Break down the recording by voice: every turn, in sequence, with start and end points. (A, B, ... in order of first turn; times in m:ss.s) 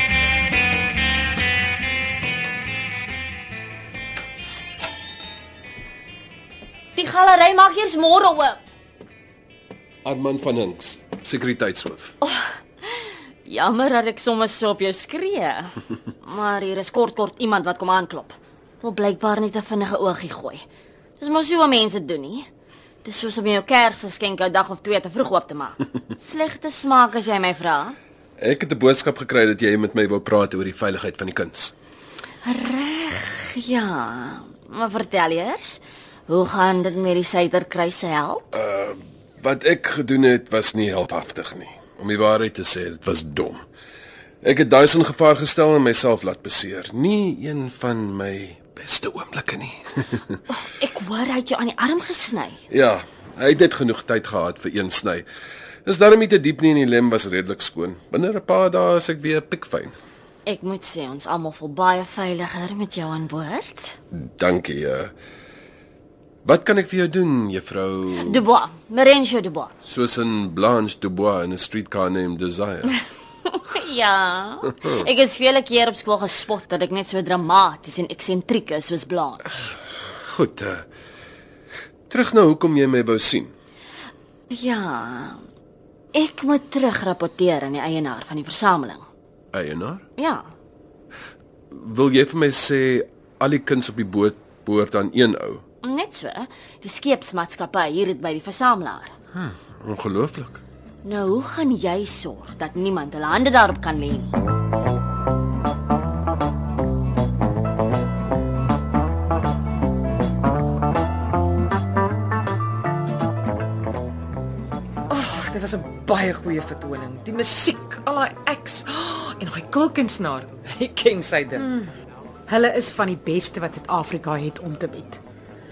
0:07.0-0:08.6 A
0:10.0-0:12.1 B
0:13.5-0:15.7 A
0:16.2-0:20.6 A
0:21.2-0:22.5 A
0:23.0-0:28.0 A
0:28.4-0:31.7 B
0:32.4-0:38.5 A
0:38.5-0:43.6 B
0:44.4-0:50.4 B
0:50.8-0:52.6 A
0:52.7-0:55.3 B
0:55.8-1:00.0 B
1:00.5-1:04.0 A
1:04.1-1:05.1 B
1:06.4-1:08.5 B
1:08.3-1:09.7 A
1:09.8-1:12.9 B
1:13.5-1:19.5 A
1:14.8-1:15.1 B
1:20.3-1:20.9 B
1:22.1-1:23.5 B
1:24.5-1:25.4 A
1:26.1-1:29.0 A
1:29.5-1:30.0 B
1:30.2-1:30.5 A
1:31.7-1:35.6 B
1:35.8-1:39.1 A
1:39.3-1:40.6 B
1:41.0-1:44.3 A
1:55.1-2:01.6 C
2:01.6-2:01.9 D
2:02.5-2:05.2 D